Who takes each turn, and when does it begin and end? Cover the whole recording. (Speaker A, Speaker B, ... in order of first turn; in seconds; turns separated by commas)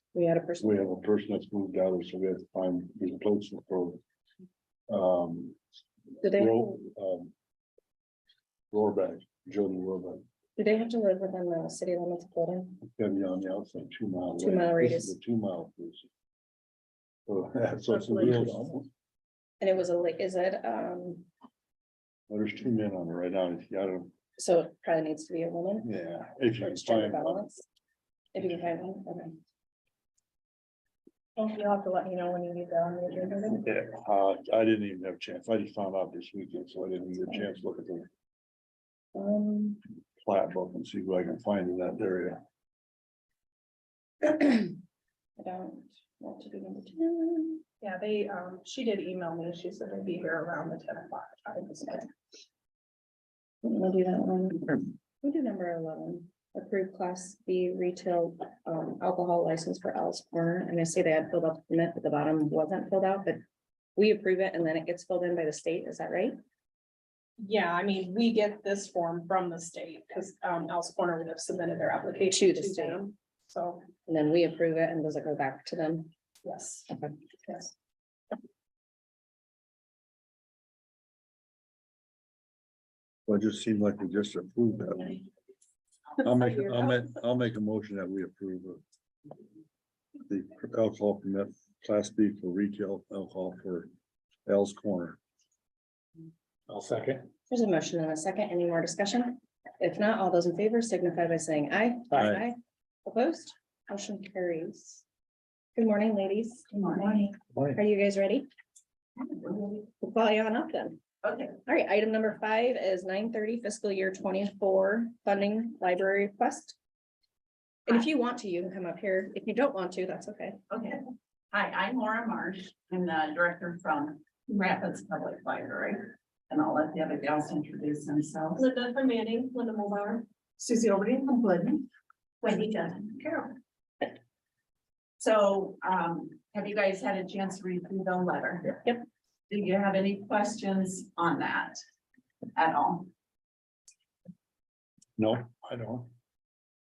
Speaker A: 0.1-0.8, Speaker B: 0.6-4.0, Speaker B: 4.9-5.6, Speaker A: 6.2-6.8, Speaker B: 6.2-7.3, Speaker B: 8.7-10.2, Speaker A: 10.6-12.8, Speaker B: 12.8-16.1, Speaker A: 14.4-15.2, Speaker B: 17.3-18.9, Speaker C: 17.9-18.8, Speaker D: 17.9-18.4, Speaker A: 19.6-21.3, Speaker B: 22.3-24.1, Speaker A: 24.4-25.9, Speaker B: 25.8-27.5, Speaker A: 26.6-27.6, Speaker A: 28.3-29.4, Speaker D: 31.4-33.6, Speaker B: 33.6-38.1, Speaker A: 39.1-39.8, Speaker B: 40.2-42.4, Speaker A: 44.2-44.8, Speaker A: 45.4-47.6, Speaker D: 47.8-52.1, Speaker A: 53.6-63.4, Speaker A: 64.0-66.3, Speaker D: 67.4-73.9, Speaker A: 72.3-73.0, Speaker A: 74.0-76.1, Speaker D: 76.4-76.9, Speaker B: 83.3-85.2, Speaker B: 86.2-88.8, Speaker B: 90.3-93.9, Speaker B: 94.5-95.2, Speaker C: 96.7-97.3, Speaker A: 97.5-105.0, Speaker C: 102.1-102.4, Speaker B: 102.2-102.4, Speaker A: 105.7-108.5, Speaker E: 106.7-107.3, Speaker C: 107.5-107.8, Speaker E: 109.2-109.8, Speaker A: 109.8-111.0, Speaker E: 111.2-111.5, Speaker A: 111.6-116.8, Speaker A: 117.9-120.6, Speaker E: 120.7-128.7, Speaker D: 128.6-131.8, Speaker E: 132.4-133.5, Speaker E: 135.2-139.0, Speaker E: 139.5-141.8, Speaker E: 142.5-143.1, Speaker B: 145.2-146.1